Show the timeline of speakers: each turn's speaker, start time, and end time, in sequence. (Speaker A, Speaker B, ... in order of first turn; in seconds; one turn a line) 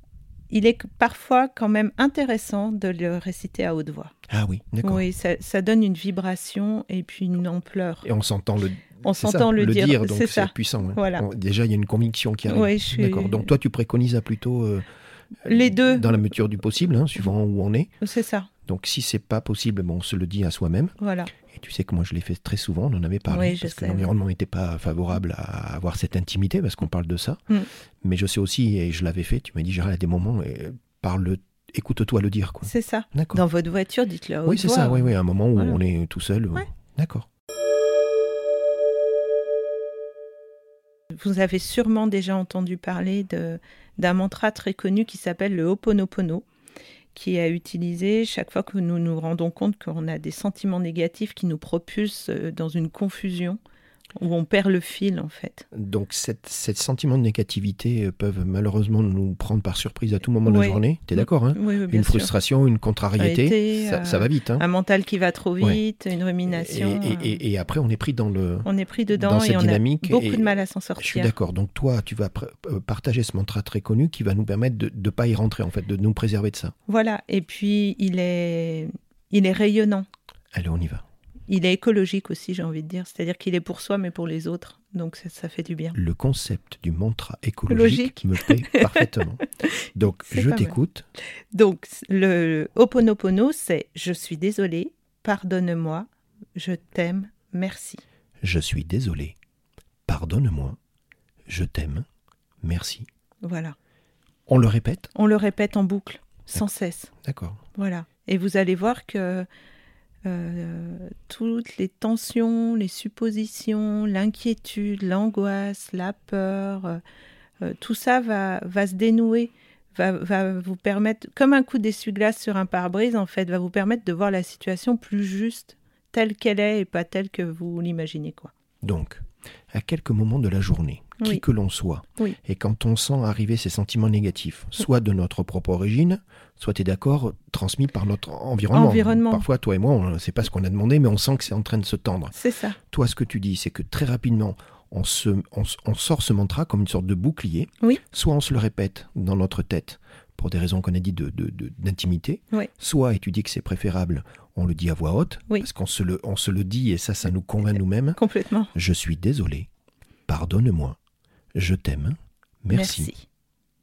Speaker A: 0.5-4.1
Speaker B: 4.3-5.0
Speaker A: 4.8-8.1
Speaker B: 8.0-14.8
Speaker A: 9.0-11.2
Speaker A: 12.5-13.5
Speaker A: 15.4-16.1
Speaker B: 15.4-17.9
Speaker A: 18.0-18.5
Speaker B: 18.6-27.4
Speaker A: 21.0-21.3
Speaker A: 23.3-24.1
Speaker B: 28.0-33.4
Speaker A: 32.6-35.8
Speaker B: 34.5-37.3
Speaker A: 41.1-46.4
Speaker A: 47.1-53.6
Speaker A: 54.2-55.6
Speaker B: 55.7-64.6
Speaker A: 60.4-62.3
Speaker A: 63.2-67.4
Speaker B: 66.5-76.7
Speaker A: 68.6-71.3
Speaker A: 76.9-80.1
Speaker B: 80.5-81.0
Speaker A: 81.5-86.0
Speaker B: 85.9-89.4
Speaker A: 87.7-89.1
Speaker B: 90.0-91.1
Speaker A: 90.3-90.8
Speaker A: 91.5-98.0
Speaker B: 98.4-99.3
Speaker B: 100.1-100.8
Speaker B: 101.5-102.1
Speaker B: 102.6-103.1
Speaker A: 103.4-103.8
Speaker B: 104.5-105.1
Speaker A: 105.1-107.1
Speaker B: 107.2-107.6
Speaker A: 107.8-109.5
Speaker A: 110.2-117.0
Speaker A: 117.6-128.5
Speaker B: 128.8-142.3
Speaker A: 131.2-131.4
Speaker A: 138.7-139.4
Speaker A: 142.3-142.8
Speaker B: 142.9-158.2
Speaker A: 158.2-158.7
Speaker B: 158.8-159.7
Speaker B: 160.3-161.0
Speaker B: 161.6-163.1
Speaker A: 162.7-163.2